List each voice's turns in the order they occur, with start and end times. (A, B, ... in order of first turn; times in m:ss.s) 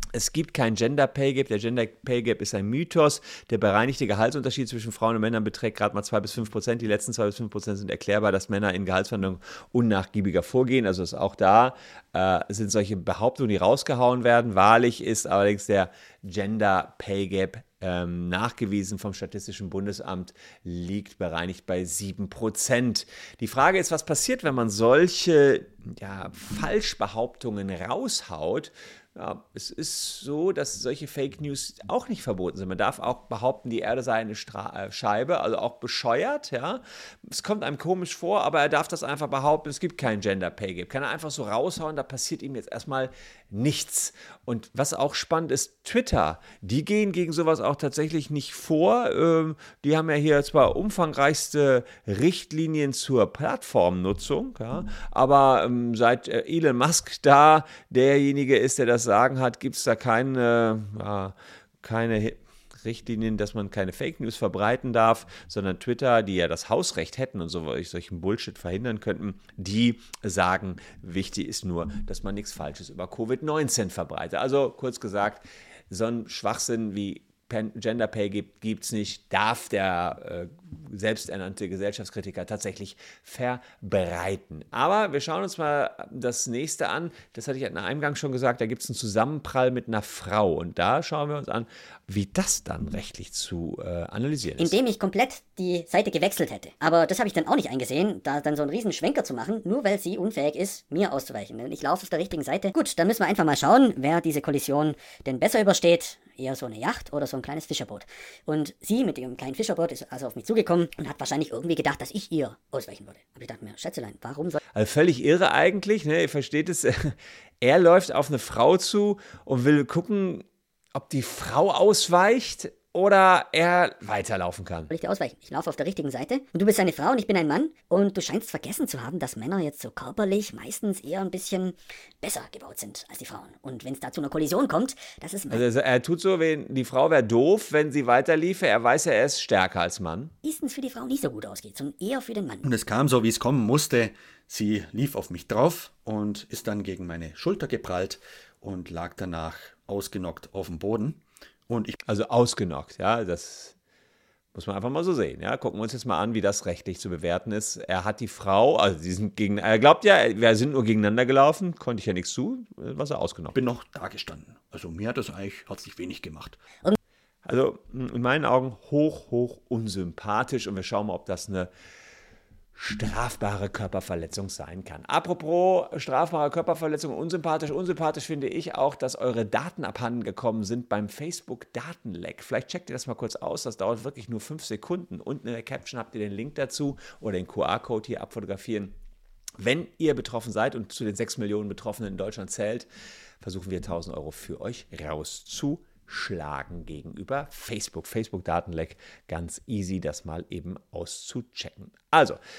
0:00.1-1:34.8 A
1:34.6-1:54.6 B
1:54.7-2:04.9 A
2:04.9-2:15.6 B
2:15.5-2:20.3 A
2:20.4-2:22.6 B
2:22.6-2:32.0 C
2:32.1-2:33.8 A
2:34.5-2:43.6 A
2:43.5-2:46.6 C
2:47.4-2:51.7 A
2:52.8-3:09.0 A
3:09.6-3:12.9 A
3:13.4-3:22.4 A